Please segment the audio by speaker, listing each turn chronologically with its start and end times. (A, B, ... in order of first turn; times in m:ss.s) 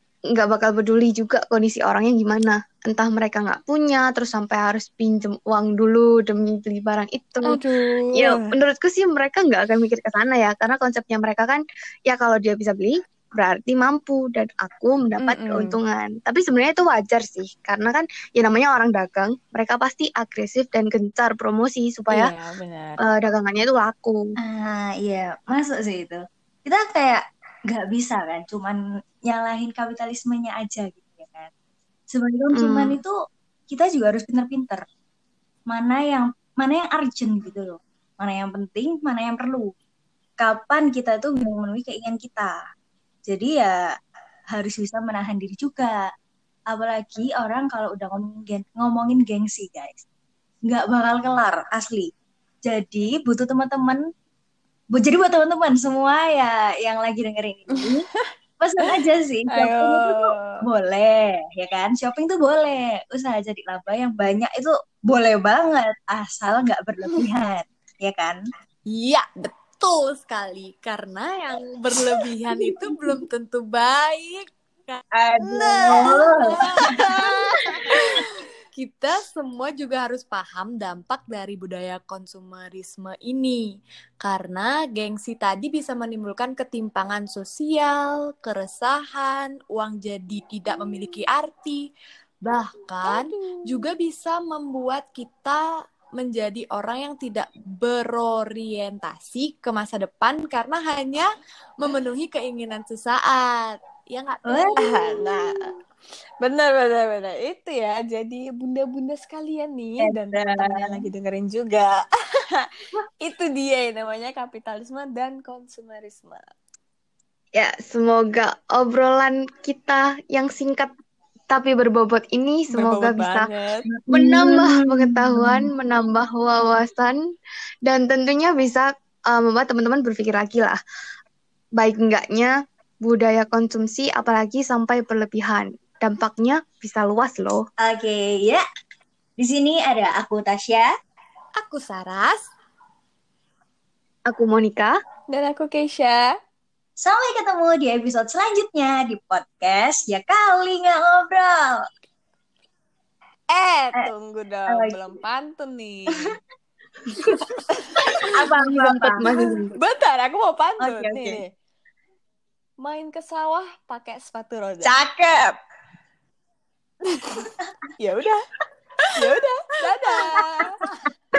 0:00.3-0:07.6 A
0:07.4-0:08.6 B
0:08.1-0:22.3 A
0:15.2-0:15.8 B
0:22.1-0:23.0 B
0:23.0-0:24.3 A
0:24.4-0:31.5 C
0:32.1-0:33.1 C
0:32.5-0:33.0 A
0:33.7-0:34.8 C
0:35.7-0:39.7 C
0:40.4-0:42.5 C
0:43.2-0:43.8 C
0:44.5-0:46.0 C
0:46.7-0:50.0 C
0:50.7-0:52.1 C
0:52.6-0:54.0 C
0:54.9-0:58.0 C
0:57.8-0:58.3 B
0:58.6-1:08.4 C
0:59.5-1:00.6 B
1:08.9-1:17.0 D
1:15.1-1:17.0 C
1:15.8-1:18.0 B
1:18.8-1:23.6 D
1:24.2-1:31.9 D
1:32.4-1:41.3 D
1:33.0-1:33.9 B
1:41.8-1:45.1 D
1:44.5-1:44.9 C
1:44.8-1:45.6 B
1:46.4-1:52.7 B
1:50.0-1:51.0 C
1:53.2-1:56.4 B
1:57.6-2:00.9 A
2:01.5-2:03.5 A
2:02.7-2:03.9 B
2:04.1-2:05.2 C
2:04.1-2:07.2 A
2:07.8-2:10.8 A
2:11.8-2:17.6 A
2:17.8-2:18.6 C
2:19.4-2:20.9 C
2:21.6-2:22.4 D
2:24.3-2:25.0 A
2:25.3-2:26.4 B
2:27.0-2:31.8 C
2:33.5-2:36.3 B
2:34.7-2:35.0 C
2:37.6-2:38.0 B
2:38.4-2:39.3 C
2:38.4-2:39.8 A
2:39.2-2:41.5 B
2:40.9-2:41.4 A
2:42.8-2:44.9 B
2:44.8-2:45.6 C
2:48.0-2:48.4 B
2:49.2-2:50.7 B